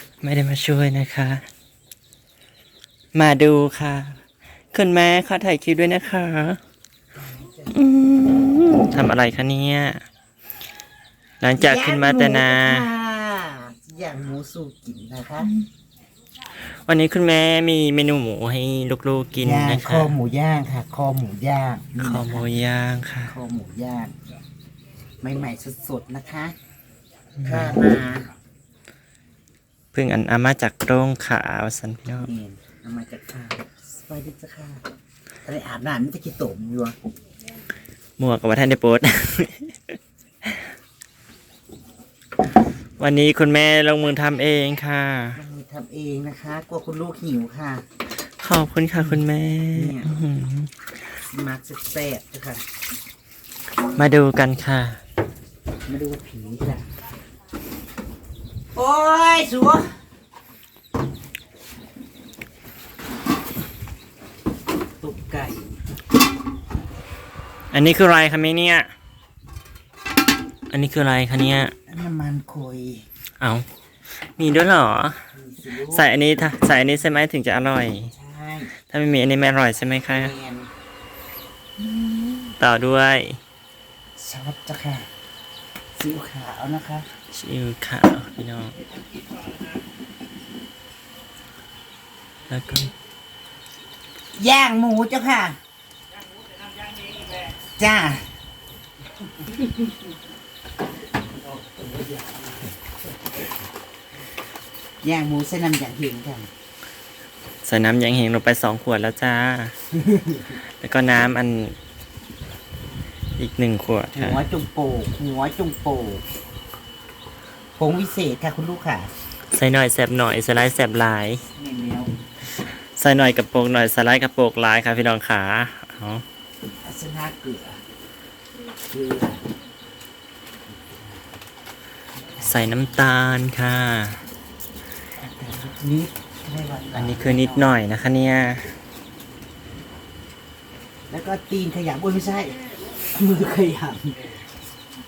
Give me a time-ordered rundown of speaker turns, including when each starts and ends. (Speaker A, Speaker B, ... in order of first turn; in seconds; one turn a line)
Speaker A: 0.2-1.5
Speaker A: 3.1-4.2
Speaker A: 4.7-6.6
Speaker B: 7.2-7.8
Speaker A: 7.7-10.0
Speaker A: 11.4-12.9
Speaker B: 11.6-15.5
Speaker A: 16.9-20.1
Speaker B: 19.4-22.4
Speaker A: 22.0-23.4
Speaker B: 23.3-24.1
Speaker B: 25.2-26.5
Speaker A: 27.4-27.8
Speaker B: 27.4-28.3
Speaker A: 29.9-32.3
Speaker B: 32.2-34.8
Speaker B: 35.5-37.0
Speaker A: 38.2-40.6
Speaker A: 43.0-45.4
Speaker B: 45.4-47.8
Speaker A: 48.4-50.7
Speaker B: 49.8-50.2
Speaker B: 51.3-52.6
Speaker A: 54.0-55.0
Speaker B: 55.9-56.8
Speaker B: 58.8-59.9
Speaker B: 65.0-65.8
Speaker A: 67.7-68.9
Speaker A: 70.7-71.7
Speaker B: 71.9-73.0
Speaker A: 74.4-75.2
Speaker B: 75.3-76.1
Speaker A: 75.8-78.1
Speaker B: 78.1-78.7
Speaker A: 78.9-80.3
Speaker B: 80.1-80.7
Speaker A: 82.6-83.4
Speaker B: 84.2-85.1
Speaker B: 86.0-87.1
Speaker A: 87.3-88.8
Speaker A: 92.5-92.9
Speaker B: 94.4-95.6
Speaker B: 97.8-98.2
Speaker B: 105.0-106.5
Speaker A: 107.7-109.8
Speaker B: 109.9-110.5
Speaker A: 110.8-111.8
Speaker A: 113.4-114.4
Speaker B: 114.2-116.2
Speaker B: 117.8-119.1
Speaker A: 119.5-121.4
Speaker B: 121.5-122.1
Speaker A: 123.0-126.2
Speaker B: 126.8-127.8
Speaker B: 128.9-129.4
Speaker B: 130.8-131.2
Speaker A: 132.4-134.2
Speaker B: 135.2-137.8
Speaker A: 136.9-138.7
Speaker B: 141.1-144.4